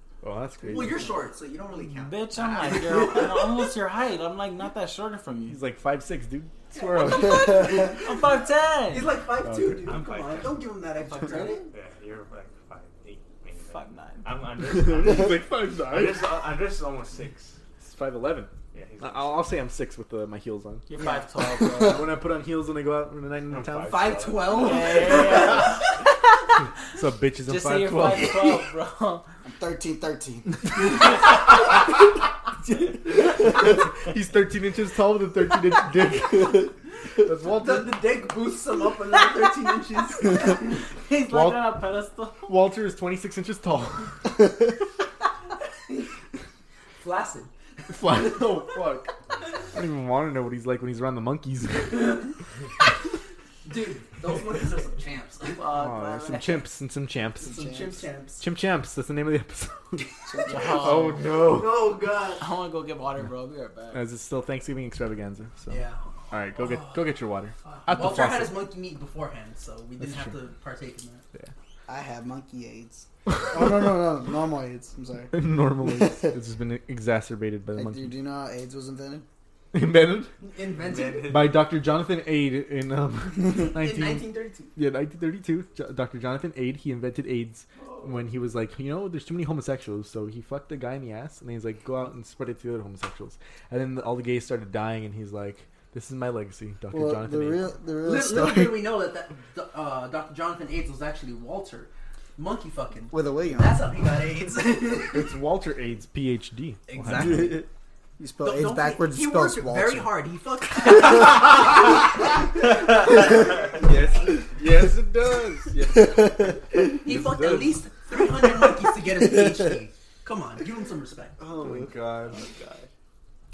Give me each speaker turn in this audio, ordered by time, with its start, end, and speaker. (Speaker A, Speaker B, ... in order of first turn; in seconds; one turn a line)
Speaker A: 0.2-1.2
Speaker B: 0.6-3.7
Speaker C: 1.8-5.6
Speaker A: 2.3-3.1
Speaker A: 5.5-7.8
Speaker B: 6.7-8.2
Speaker D: 7.4-7.9
Speaker C: 7.8-9.1
Speaker B: 8.9-11.6
Speaker A: 9.4-9.9
Speaker E: 9.8-10.7
Speaker E: 11.5-17.6
Speaker C: 13.7-14.2
Speaker A: 14.7-16.3
Speaker A: 17.8-20.9
Speaker E: 18.7-19.5
Speaker C: 20.9-22.0
Speaker D: 21.6-22.1
Speaker A: 21.8-24.1
Speaker E: 23.5-25.7
Speaker B: 23.9-26.0
Speaker C: 24.5-25.9
Speaker A: 26.8-28.6
Speaker C: 27.4-29.2
Speaker D: 29.4-31.2
Speaker A: 33.1-38.0
Speaker B: 37.4-40.8
Speaker C: 40.2-42.5
Speaker A: 41.3-41.7
Speaker A: 42.5-44.7
Speaker B: 47.0-48.8
Speaker A: 47.9-49.1
Speaker A: 49.7-52.3
Speaker B: 53.6-55.7
Speaker C: 55.5-56.7
Speaker A: 55.7-57.7
Speaker B: 57.4-58.5
Speaker D: 57.4-58.0
Speaker A: 58.4-62.0
Speaker D: 60.3-60.8
Speaker C: 60.5-61.2
Speaker B: 61.2-62.5
Speaker C: 62.4-64.0
Speaker A: 63.9-68.6
Speaker B: 65.7-66.0
Speaker B: 66.5-67.0
Speaker B: 67.6-71.2
Speaker A: 70.0-70.3
Speaker D: 71.9-76.3
Speaker A: 73.3-73.7
Speaker A: 75.3-78.1
Speaker D: 77.7-79.2
Speaker A: 79.7-80.3
Speaker B: 80.4-81.5
Speaker E: 80.8-81.6
Speaker A: 81.2-97.7
Speaker B: 83.6-84.7
Speaker D: 96.9-98.9
Speaker B: 98.0-105.4
Speaker D: 103.1-103.8
Speaker A: 105.0-107.6
Speaker B: 106.9-107.7
Speaker D: 107.2-107.7
Speaker D: 108.2-110.2
Speaker B: 108.4-111.5
Speaker A: 113.7-117.9
Speaker B: 113.7-114.4
Speaker D: 116.0-116.9
Speaker B: 117.0-121.4
Speaker D: 119.0-119.8
Speaker A: 121.4-122.4
Speaker E: 122.2-122.9